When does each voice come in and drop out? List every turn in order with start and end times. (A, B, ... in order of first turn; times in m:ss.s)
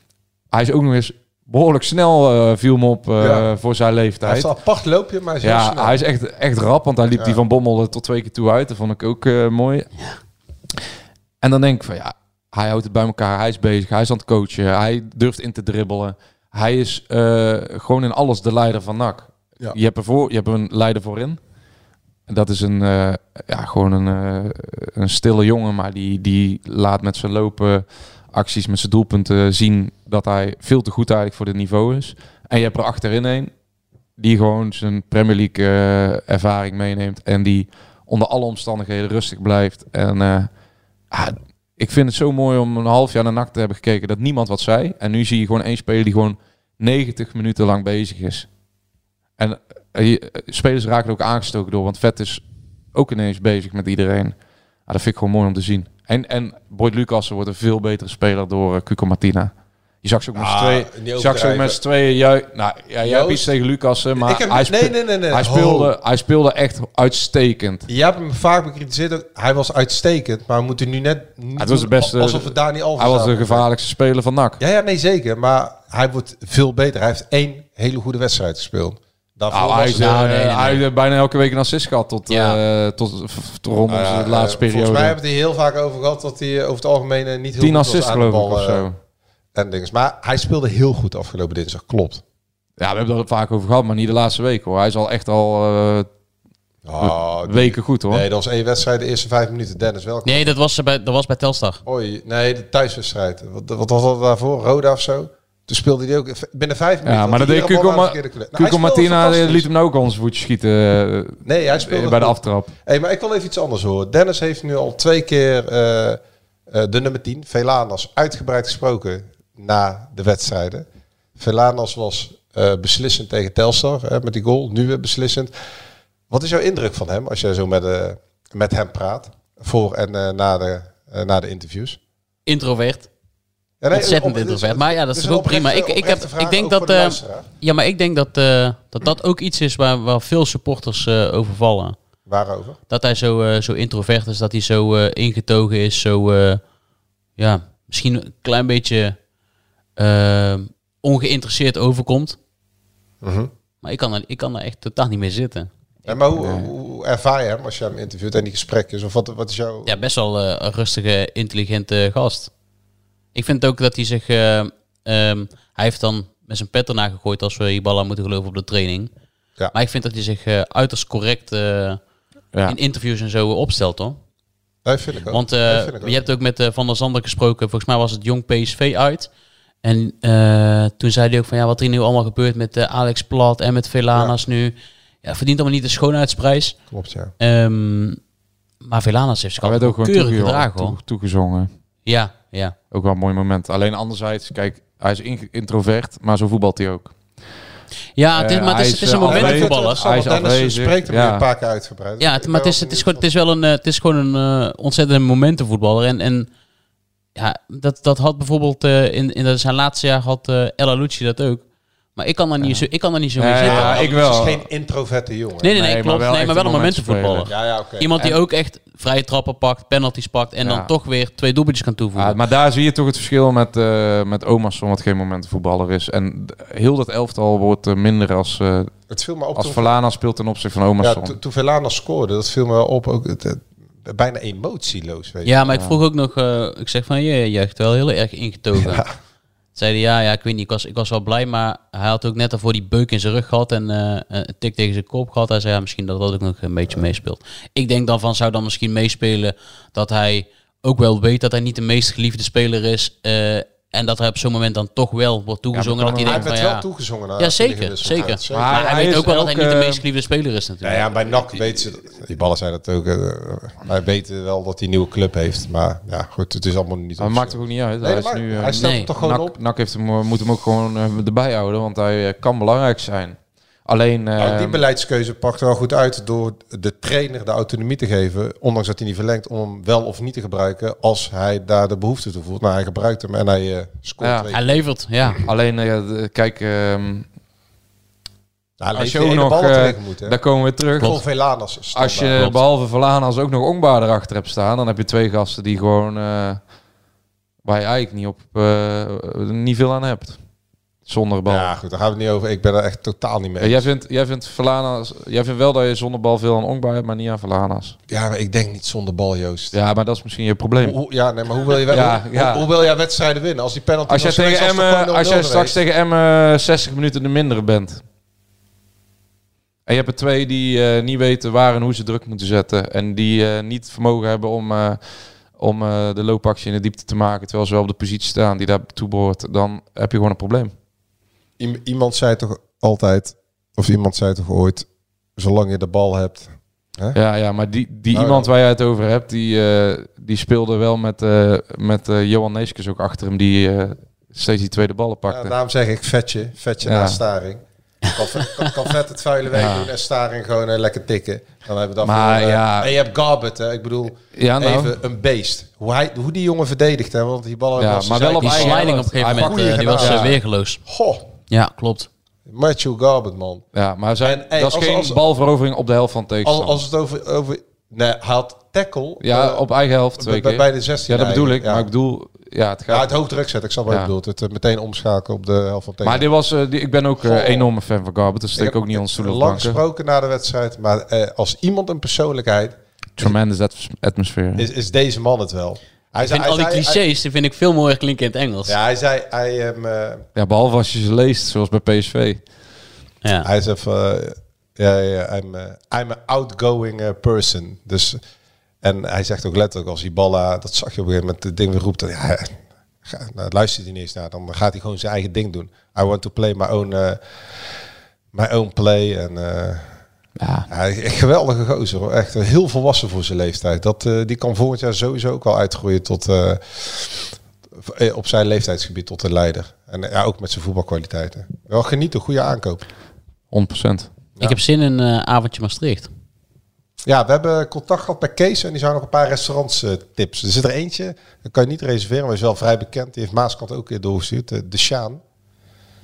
0:00.5-0:04.5 A
0:03.2-0:03.5 B
0:04.2-0:06.0 B
0:05.4-0:09.9 A
0:11.4-0:21.4 A
0:22.3-0:33.5 A
0:34.2-0:40.5 A
0:41.1-0:48.5 A
0:49.4-0:52.4 A
0:52.9-0:54.4 A
0:54.9-0:59.5 A
1:00.0-1:07.9 A
1:00.4-1:01.8 B
1:03.0-1:03.5 B
1:04.2-1:05.9 B
1:07.9-1:13.7 B
1:11.6-1:14.6 A
1:14.6-1:20.2 B
1:19.5-1:25.2 A
1:19.9-1:20.8 C
1:22.3-1:22.6 C
1:23.9-1:28.9 B
1:27.6-1:29.0 A
1:29.6-1:32.2 B
1:32.8-1:36.1 A
1:36.8-1:40.5 B
1:37.0-1:38.2 A
1:40.2-1:41.8 C
1:41.8-1:49.7 B
1:47.0-1:52.7 A
1:51.4-2:05.5 B
2:06.3-2:12.0 B
2:12.5-2:13.1 C
2:13.8-2:17.5 B
2:13.9-2:22.0 C
2:22.3-2:22.8 B
2:22.9-2:26.6 C
2:27.4-2:29.2 C
2:30.0-2:32.4 C
2:33.2-2:33.5 B
2:33.8-2:36.1 C
2:36.1-2:40.0 B
2:36.4-2:36.7 A
2:39.9-2:42.5 C
2:43.3-2:49.1 C
2:49.7-2:52.0 C
2:52.7-2:54.2 C
2:54.8-2:56.2 B
2:55.3-2:59.3 C
2:59.8-3:06.8 C
3:06.9-3:07.3 B
3:07.4-3:08.2 C
3:08.8-3:11.0 C
3:09.6-3:11.7 A
3:12.1-3:12.8 C
3:12.9-3:17.2 A
3:18.2-3:20.0 C
3:18.3-3:21.5 A
3:19.2-3:23.2 B
3:22.2-3:26.5 C
3:27.4-3:34.0 C
3:33.4-3:34.6 A
3:33.6-3:35.7 B
3:35.6-3:42.4 C
3:35.7-3:37.5 A
3:37.5-3:38.1 B
3:42.2-3:48.9 A
3:49.1-3:50.0 B
3:49.6-3:51.4 A
3:51.0-3:55.5 B
3:55.4-3:59.0 C
3:55.7-3:56.0 A
3:58.8-3:59.1 B
3:59.8-4:16.8 C
4:15.7-4:16.5 A
4:16.2-4:18.9 B
4:17.4-4:21.1 C
4:18.5-4:20.0 A
4:20.8-4:29.6 B
4:27.2-4:34.8 A
4:28.8-4:29.1 C
4:34.4-4:44.8 B
4:44.2-4:44.5 A
4:44.5-4:45.4 C
4:45.4-4:47.3 A
4:48.8-4:50.4 B
4:49.0-4:51.2 A
4:51.0-4:52.4 B
4:51.9-4:56.6 A
4:57.6-5:00.4 A
5:01.1-5:01.7 A
5:01.5-5:03.9 B
5:03.6-5:08.0 A
5:08.1-5:09.8 B
5:09.7-5:11.0 A
5:10.8-5:15.8 B
5:11.9-5:12.7 A
5:14.1-5:18.0 A
5:19.9-5:30.7 A
5:31.6-5:37.2 B
5:37.1-5:45.5 A
5:38.1-5:38.5 B
5:45.3-6:01.3 B
5:46.8-5:47.2 A
5:48.4-5:48.7 C
5:49.5-5:49.9 A
5:52.0-5:52.9 A
5:54.4-5:54.9 A
5:57.8-6:00.4 A
5:58.4-6:00.8 C
6:01.5-6:02.1 C
6:02.5-6:03.6 B
6:03.8-6:06.8 A
6:04.2-6:05.2 B
6:06.4-6:09.6 B
6:09.2-6:13.1 A
6:10.2-6:11.9 B
6:12.9-6:16.3 B
6:16.0-6:19.8 A
6:17.2-6:17.7 B
6:18.6-6:23.4 B
6:23.2-6:24.7 A
6:24.6-6:27.0 B
6:26.2-6:28.8 C
6:28.7-6:30.2 B
6:30.4-6:32.4 A
6:33.4-6:38.2 B
6:38.8-6:47.8 B
6:48.3-6:50.0 B
6:50.4-6:50.7 A
6:50.7-7:02.8 B
7:03.5-7:04.1 A
7:04.4-7:06.1 C
7:07.0-7:15.2 B